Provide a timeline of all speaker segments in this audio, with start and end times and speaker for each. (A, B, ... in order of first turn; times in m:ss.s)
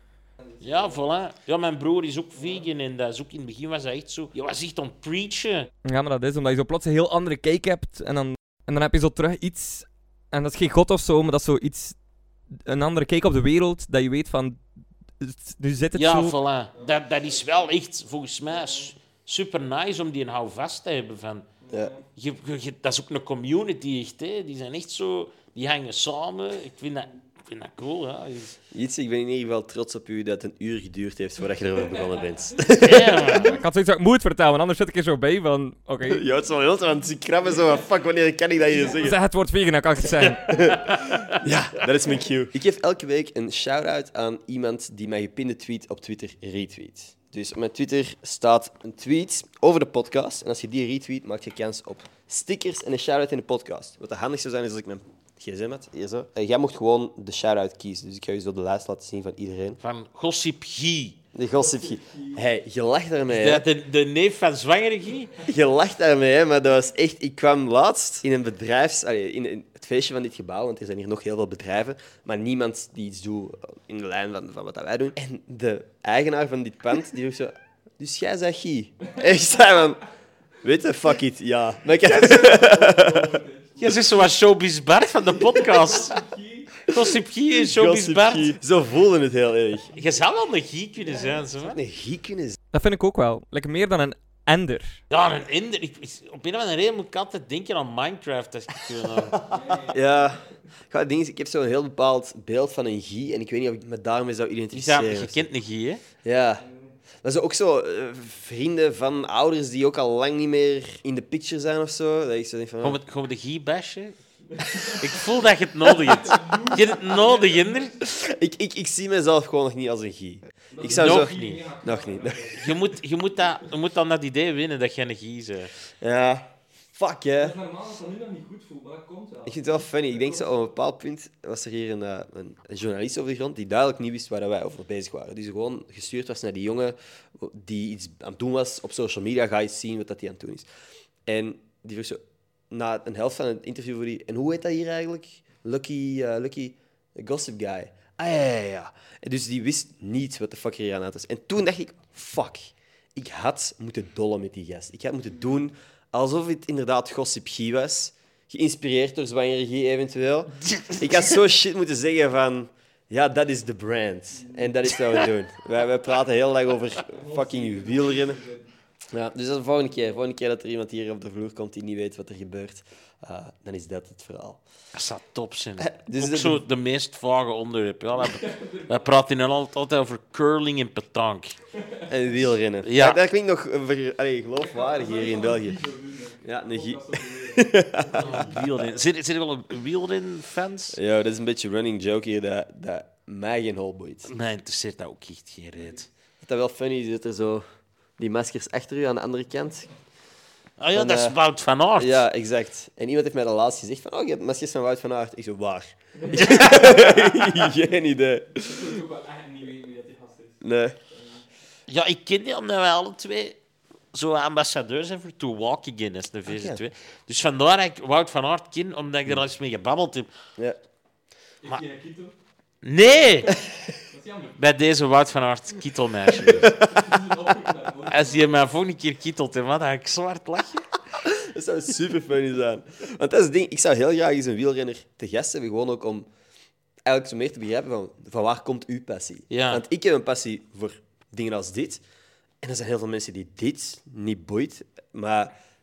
0:00.4-0:01.0 A
0:00.6-0:05.7 B
0:02.4-0:02.6 A
0:05.8-0:12.0 C
0:12.6-0:14.6 C
0:15.2-0:16.3 C
0:15.9-0:21.5 B
0:16.7-0:17.7 A
0:18.5-0:18.9 A
0:21.6-0:22.0 A
0:22.1-0:28.6 B
0:28.7-0:33.5 D
0:32.7-0:33.6 B
0:33.4-0:36.2 C
0:36.0-0:39.2 D
0:38.9-0:40.5 C
0:40.4-0:59.8 D
0:40.5-0:41.4 B
0:59.8-1:01.2 B
1:01.3-1:03.6 D
1:01.5-1:02.4 A
1:03.3-1:05.3 B
1:05.4-1:20.0 D
1:20.6-1:23.4 D
1:21.9-1:24.2 A
1:23.8-1:26.2 B
1:25.5-1:26.8 A
1:26.8-1:28.6 B
1:27.5-1:29.9 D
1:29.9-1:31.8 B
1:31.0-1:31.5 A
1:31.6-1:32.6 D
1:32.7-1:35.0 C
1:35.1-1:39.4 B
1:39.3-1:45.4 D
1:39.4-1:40.4 A
1:44.7-1:46.0 B
1:46.2-1:46.6 D
1:46.6-1:47.0 A
1:47.2-1:53.0 D
1:52.8-1:54.2 B
1:54.5-1:55.2 A
1:54.8-1:57.9 B
1:55.9-1:58.1 A
1:58.0-2:02.6 D
2:00.7-2:02.7 A
2:00.9-2:01.6 B
2:02.6-2:05.7 B
2:06.0-2:07.6 D
2:07.4-2:10.6 A
2:09.4-2:20.7 D
2:21.2-2:48.4 D
2:40.6-2:41.4 B
2:44.3-2:44.7 A
2:47.1-2:48.7 A
2:49.1-2:54.6 D
2:54.9-3:01.6 B
2:55.8-2:56.6 D
2:58.2-2:59.1 A
3:01.7-3:02.4 A
3:02.1-3:05.8 D
3:02.8-3:03.2 B
3:04.6-3:09.0 A
3:06.4-3:08.6 D
3:08.2-3:11.0 B
3:10.9-3:14.3 D
3:14.2-3:16.1 B
3:15.8-3:16.0 A
3:16.4-3:17.6 D
3:18.2-3:19.9 D
3:20.8-3:22.2 B
3:20.9-3:21.4 D
3:22.0-3:29.0 D
3:26.2-3:27.4 A
3:26.3-3:27.1 B
3:28.6-3:31.4 A
3:30.6-3:31.0 D
3:31.9-3:33.6 B
3:34.1-3:40.3 B
3:36.5-3:36.8 D
3:41.6-3:42.3 A
3:42.8-3:43.5 B
3:44.1-3:44.6 A
3:44.6-3:46.7 B
3:46.5-3:46.9 D
3:46.6-3:48.5 A
3:48.1-3:50.9 B
3:51.2-3:56.3 D
3:57.0-4:02.0 D
3:59.5-3:59.8 B
4:02.6-4:05.5 D